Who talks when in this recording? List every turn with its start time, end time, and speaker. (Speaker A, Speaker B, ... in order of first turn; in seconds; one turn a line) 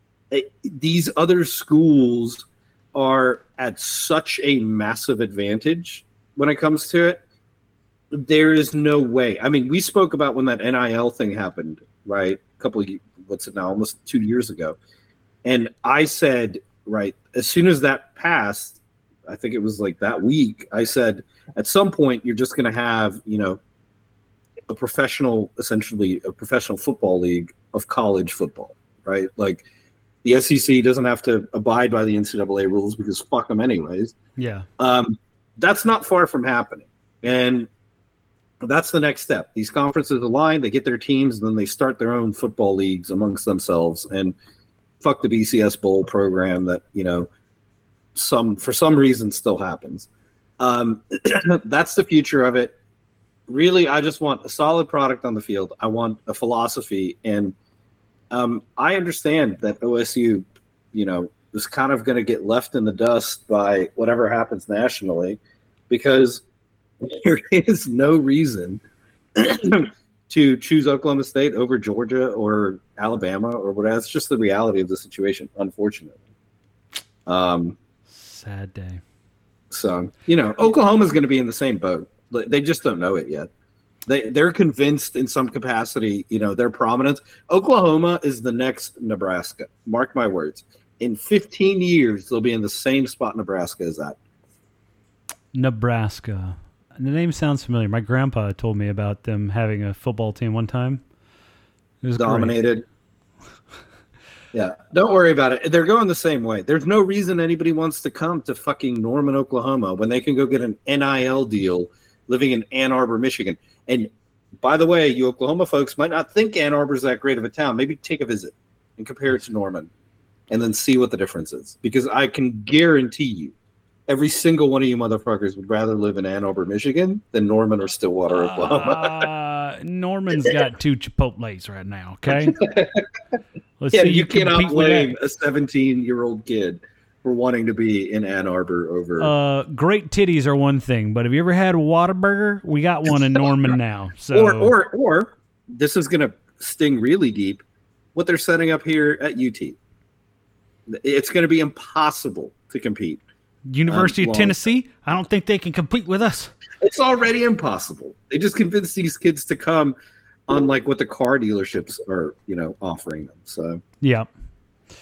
Speaker A: 0.3-7.2
Speaker A: 8.1-14.8
Speaker A: 15.4-23.6
Speaker A: 24.7-29.6
Speaker A: 30.2-34.1
Speaker B: 34.4-34.7
Speaker A: 34.8-37.7
Speaker A: 38.6-44.3
Speaker A: 45.0-47.3
Speaker A: 48.1-50.1
Speaker A: 50.6-52.7
Speaker A: 53.5-57.5
Speaker A: 58.3-66.4
Speaker A: 67.0-68.8
Speaker A: 69.3-76.2
Speaker A: 77.2-77.8
Speaker B: 78.1-79.0
Speaker A: 79.7-83.5
Speaker A: 84.0-94.2
Speaker B: 95.5-101.0
Speaker B: 102.0-102.5
Speaker A: 102.2-102.8
Speaker A: 104.5-119.9
Speaker A: 120.5-123.5
Speaker A: 124.1-129.3
Speaker B: 128.3-132.6
Speaker A: 132.3-133.1
Speaker B: 133.8-135.1
Speaker A: 133.9-139.3
Speaker B: 139.2-144.7
Speaker A: 144.3-147.6
Speaker A: 148.1-149.8
Speaker A: 150.9-153.2
Speaker B: 153.7-156.5
Speaker A: 153.9-154.6
Speaker A: 156.8-159.9
Speaker A: 160.5-163.8
Speaker B: 164.0-164.3